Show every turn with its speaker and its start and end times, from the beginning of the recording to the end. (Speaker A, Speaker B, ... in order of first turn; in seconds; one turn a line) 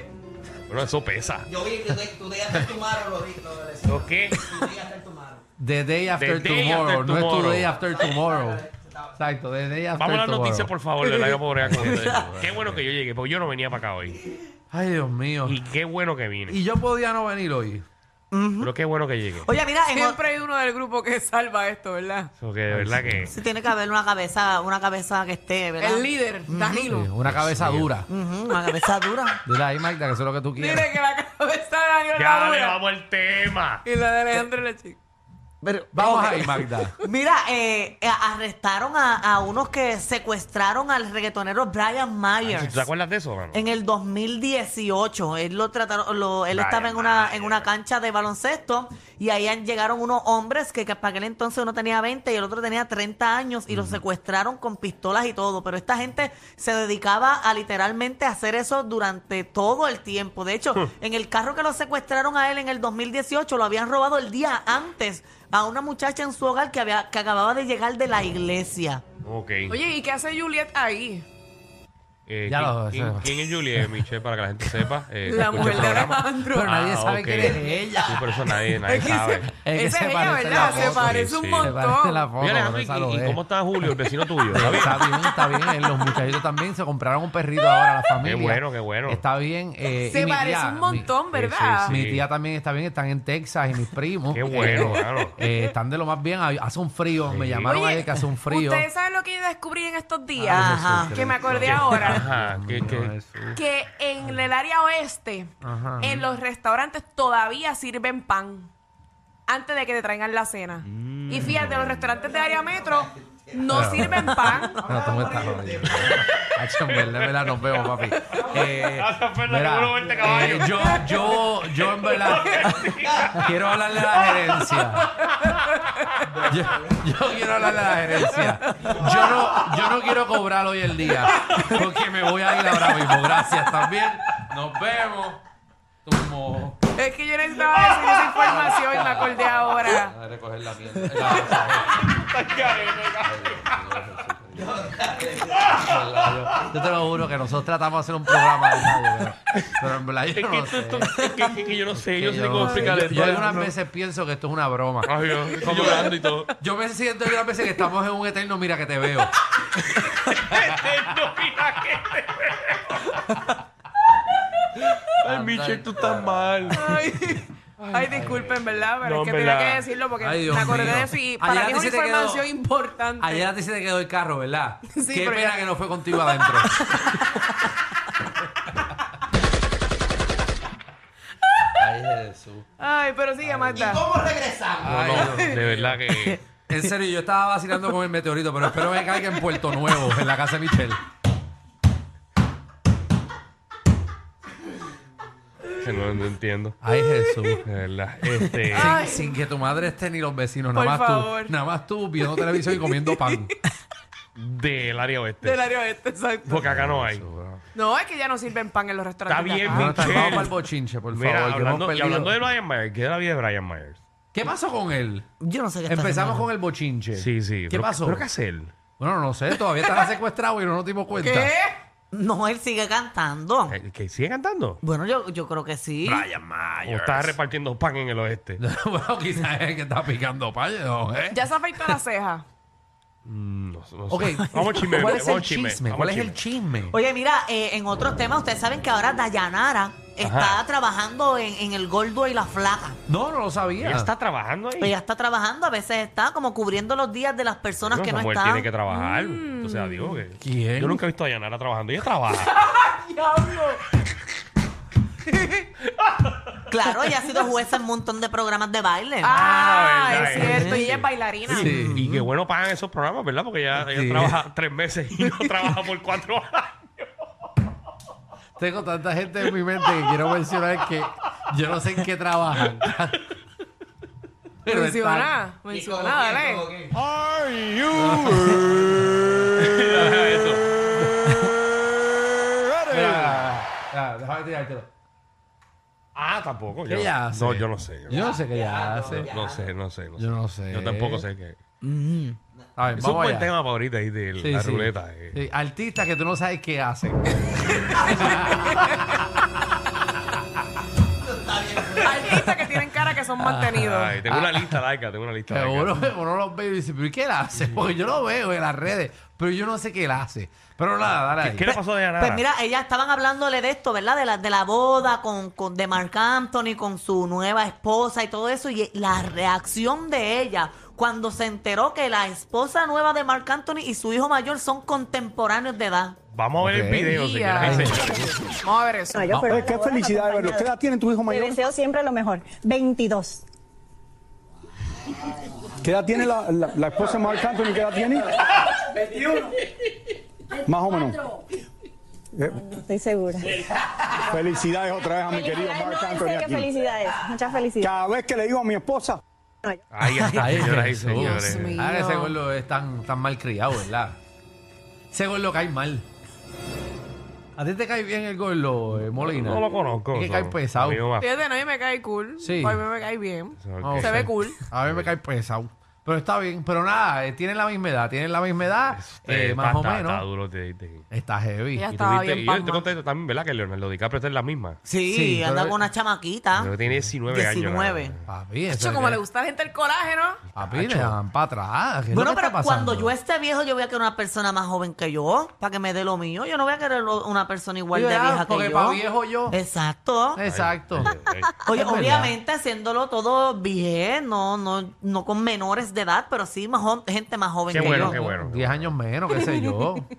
Speaker A: 0.7-1.5
Speaker B: 1.5-5.4
Speaker A: 3.9-4.4
Speaker C: 5.6-8.7
Speaker A: 6.1-7.7
Speaker B: 8.1-8.9
Speaker C: 9.2-10.7
Speaker A: 10.0-14.2
Speaker D: 11.0-11.4
Speaker C: 11.6-12.8
Speaker C: 14.7-15.6
Speaker A: 15.4-16.6
Speaker C: 16.5-17.8
Speaker E: 18.3-18.7
Speaker A: 18.6-19.5
Speaker E: 19.4-20.2
Speaker D: 19.9-22.3
Speaker A: 22.4-23.3
Speaker C: 22.7-23.3
Speaker E: 23.3-26.9
Speaker D: 25.8-27.1
Speaker C: 26.9-28.1
Speaker A: 27.2-27.9
Speaker E: 28.1-29.4
Speaker C: 29.4-30.9
Speaker D: 30.6-32.8
Speaker A: 32.1-33.8
Speaker D: 33.8-35.0
Speaker E: 35.6-42.9
Speaker C: 35.9-36.9
Speaker A: 42.4-43.6
Speaker E: 43.5-69.0
Speaker A: 46.5-47.7
Speaker A: 53.7-54.0
Speaker A: 69.2-69.7
Speaker D: 69.7-71.2
Speaker A: 72.3-79.5
Speaker C: 72.5-74.0
Speaker D: 75.2-76.7
Speaker C: 75.5-78.8
Speaker D: 78.9-82.3
Speaker C: 79.5-83.4
Speaker A: 80.5-81.8
Speaker A: 82.4-85.1
Speaker C: 84.5-98.8
Speaker D: 85.0-86.2
Speaker A: 88.2-89.2
Speaker D: 89.9-92.0
Speaker A: 91.3-92.2
Speaker A: 94.3-95.4
Speaker D: 94.7-95.3
Speaker A: 97.2-97.8
Speaker D: 97.7-102.2
Speaker C: 100.4-103.6
Speaker E: 100.5-101.2
Speaker A: 101.6-103.1
Speaker D: 103.5-108.7
Speaker C: 105.6-106.2
Speaker D: 109.5-114.8
Speaker A: 111.0-111.9
Speaker C: 113.7-125.1
Speaker B: 114.8-115.9
Speaker A: 115.9-123.6
Speaker D: 118.1-118.4
Speaker C: 126.4-135.4
Speaker D: 128.3-129.3
Speaker C: 136.0-136.8
Speaker D: 136.9-140.1
Speaker C: 138.3-142.0
Speaker A: 141.2-144.0
Speaker C: 143.2-144.9
Speaker B: 145.2-145.4
Speaker A: 145.5-146.6
Speaker C: 145.6-151.4
Speaker A: 150.3-153.7
Speaker C: 151.9-159.4
Speaker D: 152.6-153.3
Speaker A: 155.0-156.5
Speaker A: 159.8-163.4
Speaker A: 164.8-167.0
Speaker C: 165.2-166.9
Speaker D: 166.7-173.5
Speaker A: 167.8-169.9
Speaker C: 168.1-168.4
Speaker C: 170.2-172.5
Speaker C: 173.2-176.8
Speaker D: 174.9-177.7
Speaker C: 181.8-182.7
Speaker D: 182.8-184.1
Speaker C: 183.4-184.0
Speaker B: 183.8-185.3
Speaker C: 184.8-186.0
Speaker A: 184.8-186.4
Speaker C: 186.7-191.0
Speaker A: 195.8-196.8
Speaker C: 196.8-197.6
Speaker A: 197.6-199.0
Speaker C: 198.6-203.5
Speaker D: 198.7-199.4
Speaker D: 200.7-201.5
Speaker D: 202.2-203.5
Speaker A: 204.3-205.7
Speaker D: 205.4-206.6
Speaker A: 206.5-207.2
Speaker C: 206.6-207.6
Speaker D: 207.7-210.3
Speaker A: 209.3-210.6
Speaker C: 209.7-212.3
Speaker A: 211.1-214.0
Speaker C: 214.3-215.3
Speaker E: 215.4-216.5
Speaker C: 215.9-218.3
Speaker A: 217.2-218.7
Speaker C: 219.0-221.5
Speaker D: 219.8-220.1
Speaker D: 221.2-221.8
Speaker E: 222.1-223.7
Speaker A: 223.7-224.8
Speaker E: 224.8-226.2
Speaker A: 226.0-226.3
Speaker C: 226.1-227.4
Speaker A: 226.8-228.6
Speaker C: 228.6-232.0
Speaker D: 231.3-232.4
Speaker A: 233.2-236.4
Speaker C: 234.1-236.9
Speaker E: 236.9-243.0
Speaker A: 240.2-240.6
Speaker C: 243.1-244.1
Speaker A: 243.8-244.9
Speaker E: 244.8-248.7
Speaker A: 247.8-252.5
Speaker D: 248.9-250.2
Speaker C: 250.4-251.0
Speaker D: 252.4-253.9
Speaker D: 255.3-255.6
Speaker A: 255.8-256.5
Speaker E: 256.7-259.3
Speaker D: 259.2-261.7
Speaker A: 259.2-267.1
Speaker E: 260.1-260.9
Speaker C: 261.5-262.1
Speaker E: 261.6-262.2
Speaker C: 263.8-264.4
Speaker D: 265.2-265.8
Speaker C: 268.6-273.2
Speaker C: 274.6-275.3
Speaker D: 274.7-276.7
Speaker B: 275.7-276.9
Speaker F: 277.2-277.8
Speaker C: 277.9-279.0
Speaker A: 278.1-278.5
Speaker A: 279.6-281.0
Speaker C: 281.2-281.5
Speaker C: 282.6-284.9
Speaker A: 282.8-283.5
Speaker A: 286.1-288.3
Speaker C: 286.9-289.3
Speaker B: 288.1-289.6
Speaker A: 289.2-291.6
Speaker C: 290.2-291.2
Speaker E: 291.8-292.4
Speaker C: 292.8-293.5
Speaker A: 293.0-295.4
Speaker C: 294.4-298.8
Speaker B: 301.6-302.1
Speaker D: 302.0-304.1
Speaker C: 303.4-304.8
Speaker A: 303.8-306.1
Speaker C: 305.5-311.7
Speaker A: 311.4-312.4
Speaker E: 311.7-326.2
Speaker A: 326.3-328.3
Speaker C: 326.6-328.2
Speaker D: 327.1-328.0
Speaker D: 328.6-329.2
Speaker G: 329.2-330.7
Speaker C: 329.3-329.6
Speaker F: 329.4-331.7
Speaker G: 331.3-333.4
Speaker F: 335.8-338.3
Speaker F: 340.6-341.2
Speaker F: 342.3-342.7
Speaker G: 342.7-343.5
Speaker F: 344.2-346.8
Speaker G: 345.4-347.9
Speaker F: 347.8-349.2
Speaker A: 349.9-351.7
Speaker C: 350.2-354.2
Speaker D: 351.2-352.4
Speaker C: 355.1-356.1
Speaker C: 357.6-361.0
Speaker A: 359.2-361.3
Speaker D: 361.2-364.7
Speaker C: 362.4-362.8
Speaker A: 363.6-364.3
Speaker C: 363.8-370.2
Speaker A: 364.9-365.1
Speaker A: 368.9-371.0
Speaker C: 371.1-371.9
Speaker D: 371.7-372.9
Speaker A: 371.9-374.8
Speaker E: 374.8-376.7
Speaker C: 375.1-375.8
Speaker A: 376.5-378.2
Speaker E: 377.3-378.1
Speaker C: 378.3-379.2
Speaker D: 378.7-380.4
Speaker A: 380.5-381.2
Speaker C: 380.6-383.1
Speaker E: 382.1-390.4
Speaker C: 387.9-389.6
Speaker C: 390.3-392.3
Speaker A: 390.4-391.5
Speaker E: 391.6-398.2
Speaker A: 397.7-398.9
Speaker C: 397.7-400.1